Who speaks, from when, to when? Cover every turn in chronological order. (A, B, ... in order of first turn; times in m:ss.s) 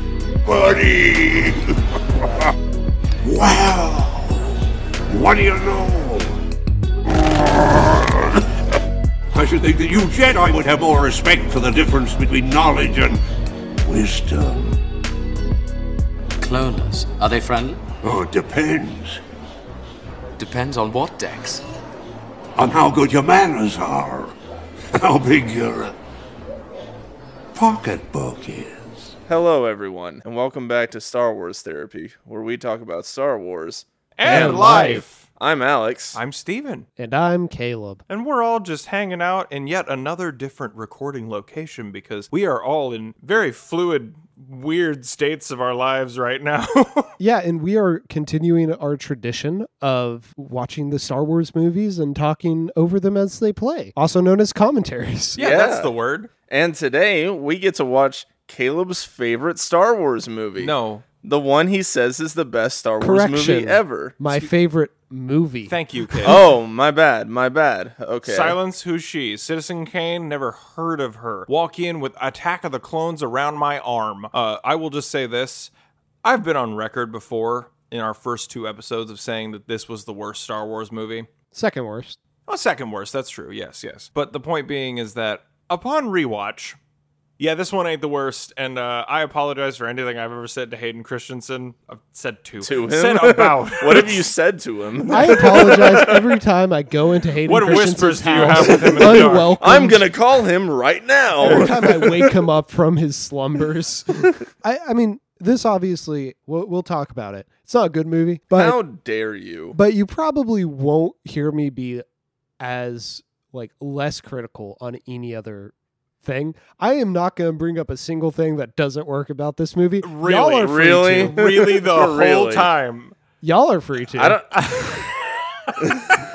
0:00.4-0:02.5 A
0:03.2-0:04.4 A
0:05.1-0:06.4 A
0:07.1-0:08.4 A
0:09.3-0:13.2 A
0:13.9-0:14.8 A
0:16.4-0:17.8 B
0:18.0-0:19.2 A
0:20.4-0:21.6 B
0:22.6-0:24.3 A
0:25.0-0:25.9 A
0:27.6-0:29.1 A
0:29.3-0:36.2 C
0:34.2-0:35.2 D
0:34.3-0:35.0 B
0:34.3-0:35.0 E
0:36.2-0:36.9 D
0:37.0-0:38.0 E
0:38.1-0:47.1 D
0:47.2-0:55.4 E
0:55.4-0:56.3 D
0:55.4-0:55.9 C
0:56.5-1:04.2 C
1:00.6-1:01.0 D
1:03.0-1:06.4 E
1:05.7-1:06.4 D
1:06.2-1:08.6 C
1:08.3-1:15.7 D
1:16.2-1:21.3 D
1:21.5-1:22.2 E
1:22.5-1:26.8 D
1:27.4-1:34.3 D
1:32.6-1:36.1 C
1:35.1-1:36.1 D
1:35.1-1:40.0 E
1:37.4-1:39.6 D
1:38.6-1:42.2 C
1:41.4-1:48.8 E
1:41.4-1:41.7 D
1:48.5-1:49.8 C
1:49.7-1:52.0 E
1:52.6-2:01.4 E
2:00.0-2:03.1 D
2:00.6-2:02.7 C
2:03.4-2:04.4 E
2:04.1-2:05.0 C
2:04.5-2:06.2 D
2:05.8-2:06.1 C